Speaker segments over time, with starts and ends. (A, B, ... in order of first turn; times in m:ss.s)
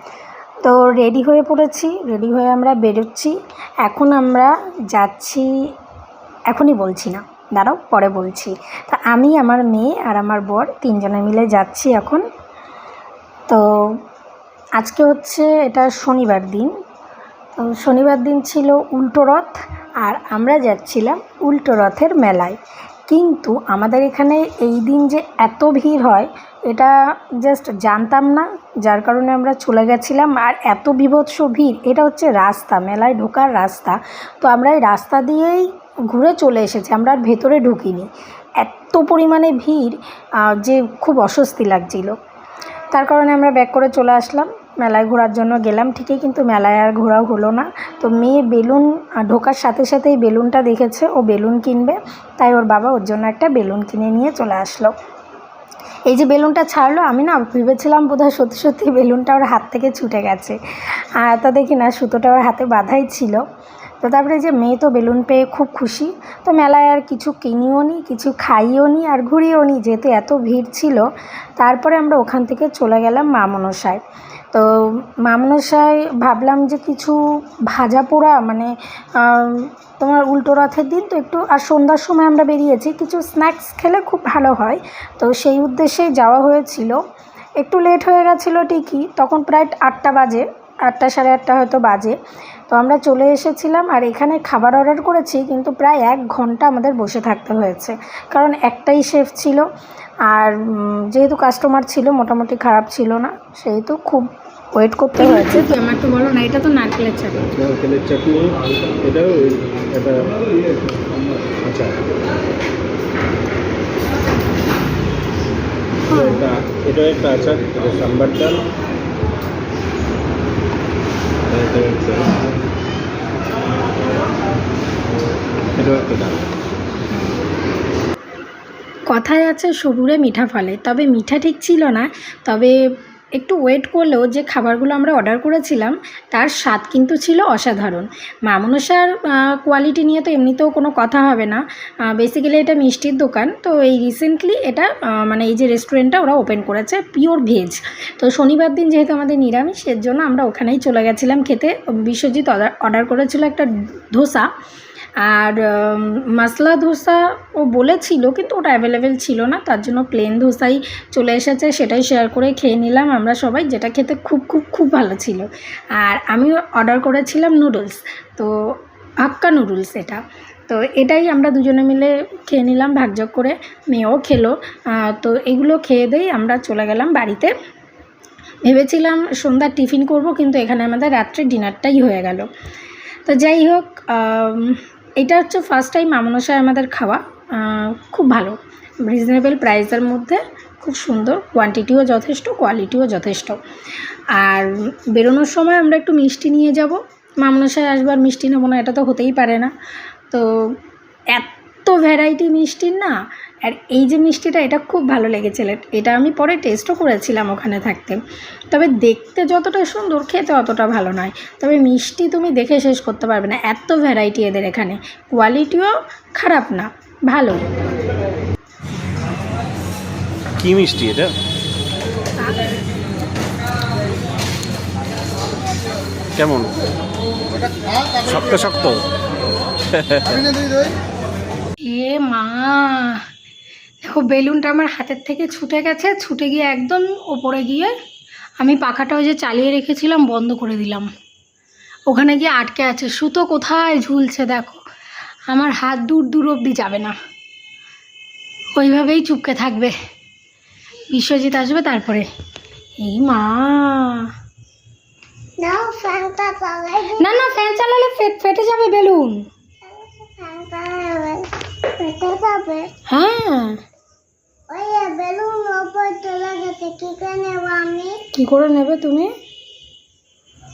0:00.6-0:05.5 A
0:06.5-0:12.2 A
0:13.5-0:14.0 A
0:14.8-0:16.7 A
0:17.6-0:42.1 A
0:42.9-0:54.9 A
0:56.1-1:00.6 A
1:01.2-1:03.4 A
1:04.0-1:11.1 A
1:11.6-1:14.0 A
1:14.5-1:27.0 A
1:27.6-1:32.2 A
1:32.7-1:39.7 A
1:40.3-1:47.4 A
1:47.4-1:50.2 B
1:51.6-1:52.0 B
1:56.1-1:56.4 A
1:56.1-1:58.6 B
2:01.5-2:02.4 B
2:05.8-2:06.5 B
2:09.1-2:12.8 A
2:13.4-2:34.5 A
2:35.2-2:48.5 A
2:49.2-2:57.5 A
2:58.6-3:02.5 A
3:03.3-3:13.6 A
3:14.4-3:19.7 A
3:20.3-3:20.8 A
3:21.3-3:28.2 A
3:28.7-3:37.7 A
3:40.6-3:41.4 B
3:46.3-3:46.8 B
3:48.2-3:49.0 B
3:49.9-3:50.4 B
3:51.8-3:53.2 A
3:54.0-3:58.0 A
3:58.6-4:01.1 A
4:02.1-4:04.8 A
4:05.5-4:07.1 A
4:08.8-4:09.9 A
4:11.1-4:12.3 A
4:13.0-4:14.3 A
4:15.6-4:17.5 C
4:17.1-4:19.4 A
4:19.8-4:22.9 C
4:23.1-4:23.8 A
4:24.7-4:28.2 C
4:28.3-4:29.3 A